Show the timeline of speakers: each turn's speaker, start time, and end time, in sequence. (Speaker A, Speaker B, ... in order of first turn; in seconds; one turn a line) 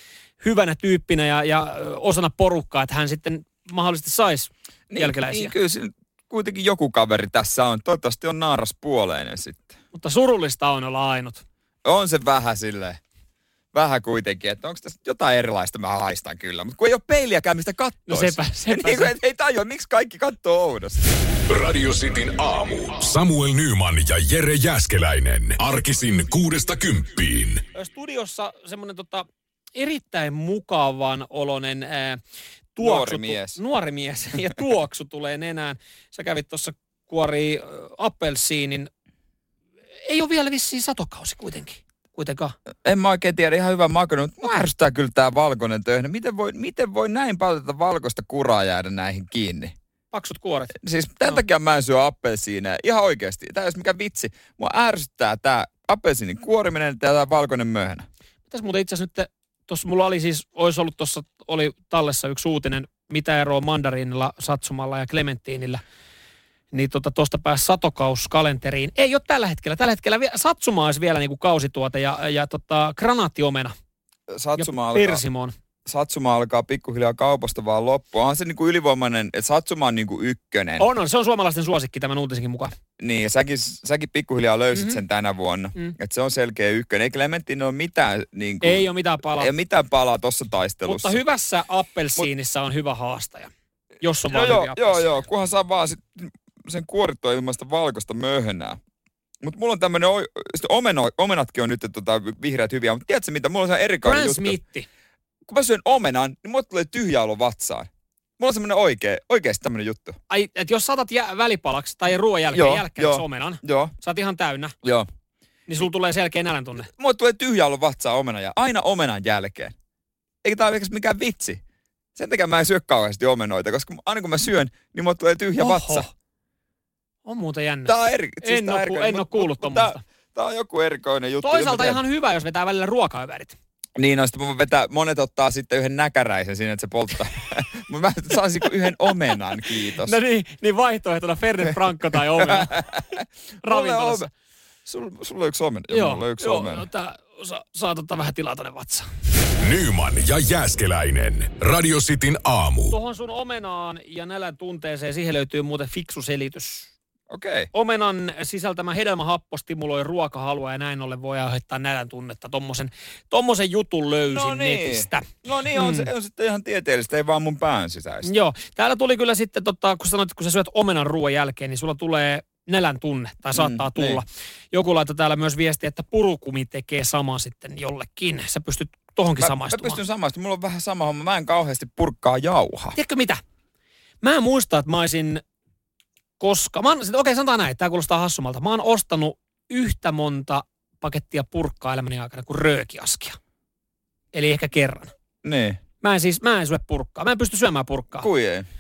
Speaker A: 0.4-5.5
Speaker B: 4.9-9.8
Speaker A: 9.9-11.4
Speaker B: 11.8-13.0
Speaker B: 13.7-21.1
Speaker A: 18.1-19.1
Speaker C: 21.5-27.6
Speaker A: 27.7-32.2
Speaker A: 32.8-38.9
Speaker B: 32.8-33.6
Speaker A: 40.1-42.5
Speaker B: 42.8-49.8
Speaker A: 50.1-50.8
Speaker B: 50.8-58.1
Speaker A: 58.5-65.8
Speaker A: 66.7-73.8
Speaker B: 74.3-75.2
Speaker A: 74.6-75.5
Speaker B: 75.9-80.8
Speaker A: 80.8-82.7
Speaker B: 83.0-88.8
Speaker A: 88.6-89.5
Speaker B: 89.4-91.2
Speaker A: 90.8-95.1
Speaker B: 94.3-98.8
Speaker B: 99.4-104.6
Speaker A: 104.0-104.9
Speaker B: 105.5-110.2
Speaker A: 110.3-114.8
Speaker B: 112.5-113.9
Speaker B: 114.8-115.1
Speaker A: 115.7-116.9
Speaker B: 116.9-119.7
Speaker B: 120.4-121.6
Speaker B: 122.2-126.1
Speaker A: 125.6-126.1
Speaker A: 127.2-130.0
Speaker B: 127.9-132.0
Speaker A: 131.4-133.6
Speaker B: 134.0-140.2
Speaker A: 140.0-142.9
Speaker B: 142.4-144.3
Speaker A: 143.6-144.3
Speaker B: 144.9-146.9
Speaker A: 145.9-149.1
Speaker C: 149.6-152.9
Speaker A: 152.9-156.9
Speaker B: 157.3-157.7
Speaker A: 157.7-166.1
Speaker B: 164.3-168.3
Speaker A: 168.2-180.0
Speaker B: 173.6-174.2
Speaker B: 179.4-183.0
Speaker A: 182.9-183.4
Speaker A: 184.2-185.4
Speaker A: 186.4-193.4
Speaker A: 194.3-195.1
Speaker B: 195.4-195.8
Speaker A: 196.0-198.3
Speaker B: 198.2-198.7